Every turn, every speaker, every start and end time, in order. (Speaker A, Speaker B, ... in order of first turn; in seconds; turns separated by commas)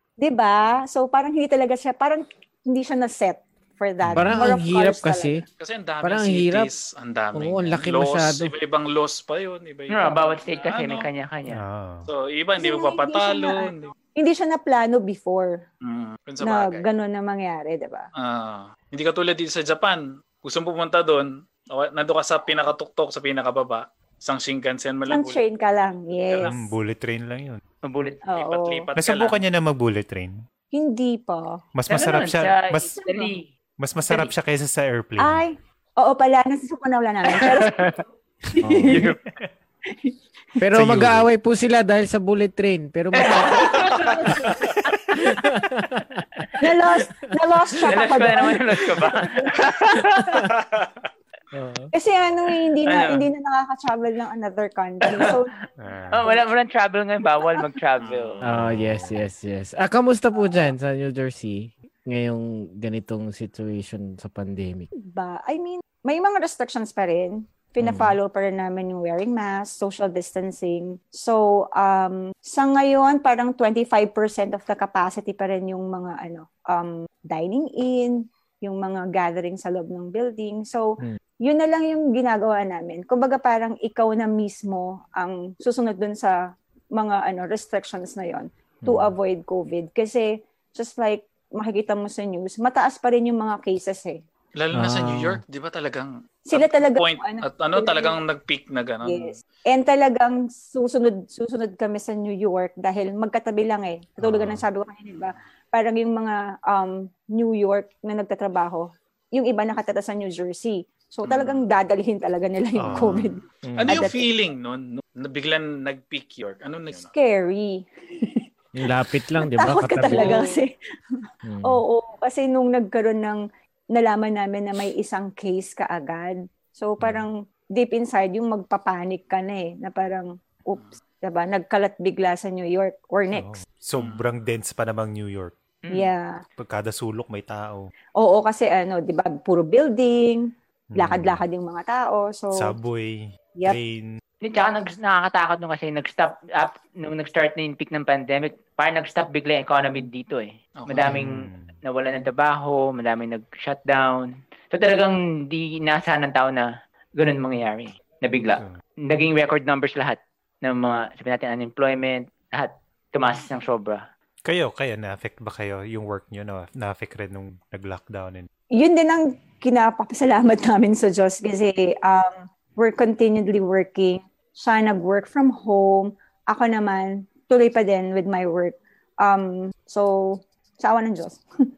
Speaker A: 0.2-5.4, Speaker B: 4.0-4.5, Speaker C: 4.2-5.4, Speaker D: 5.6-11.1, Speaker C: 6.0-6.7, Speaker C: 7.3-8.5, Speaker E: 9.9-11.6, Speaker B: 11.5-12.1, Speaker D: 12.1-13.9, Speaker A: 12.6-15.6, Speaker D: 15.8-16.9, Speaker A: 16.4-18.1, Speaker D: 18.2-25.4, Speaker A: 25.1-26.7, Speaker D: 26.3-26.6, Speaker B: 26.5-27.6, Speaker E: 27.8-28.2, Speaker A: 28.3-28.9, Speaker D: 28.4-29.4, Speaker B: 29.0-30.3, Speaker A: 30.7-31.6, Speaker B: 31.7-33.0, Speaker E: 31.9-33.5, Speaker A: 33.0-33.4, Speaker B: 33.8-35.4, Speaker A: 35.2-38.0, Speaker E: 37.3-38.0, Speaker A: 38.5-39.1, Speaker C: 38.6-39.0, Speaker E: 38.8-39.2, Speaker A: 39.9-40.1, Speaker C: 40.6-43.7, Speaker B: 40.7-41.3, Speaker E: 43.1-44.3, Speaker A: 43.2-44.5, Speaker D: 43.5-45.0, Speaker C: 45.1-47.9, Speaker A: 46.6-50.0, Speaker E: 47.9-50.4, Speaker C: 50.0-50.6, Speaker D: 50.4-51.1, Speaker C: 51.5-51.9, Speaker A: 51.9-55.6, Speaker E: 52.8-53.3, Speaker E: 55.1-55.3, Speaker B: 55.8-56.3, Speaker E: 56.1-58.4, Speaker D: 58.0-58.5, Speaker C: 58.4-64.9, Speaker B: 58.5-59.2, Speaker A: 65.0-86.4, Speaker C: 67.8-68.2, Speaker A: 86.9-94.2, Speaker C: 88.8-89.1, Speaker D: 94.6-99.4, Speaker C: 94.7-95.4, Speaker A: 96.5-98.2, Speaker A: 99.0-114.3, Speaker B: 104.2-104.6, Speaker D: 111.2-111.6, Speaker B: 112.8-113.4, Speaker C: 113.6-114.1, Speaker D: 113.8-117.1, Speaker A: 117.0-118.5, Speaker C: 118.8-120.5, Speaker A: 119.4-133.6, Speaker E: 120.1-120.5, Speaker C: 121.4-121.8, Speaker B: 127.0-127.3, Speaker B: 133.3-135.6, Speaker D: 134.0-134.3, Speaker E: 135.8-136.1, Speaker A: 135.9-136.4, Speaker B: 136.6-137.8, Speaker A: 138.2-142.8, Speaker B: 140.9-141.4, Speaker B: 142.5-144.2, Speaker E: 144.4-164.0, Speaker D: 150.8-151.2, Speaker B: 151.1-151.8, Speaker B: 164.4-168.5, Speaker A: 168.7-181.7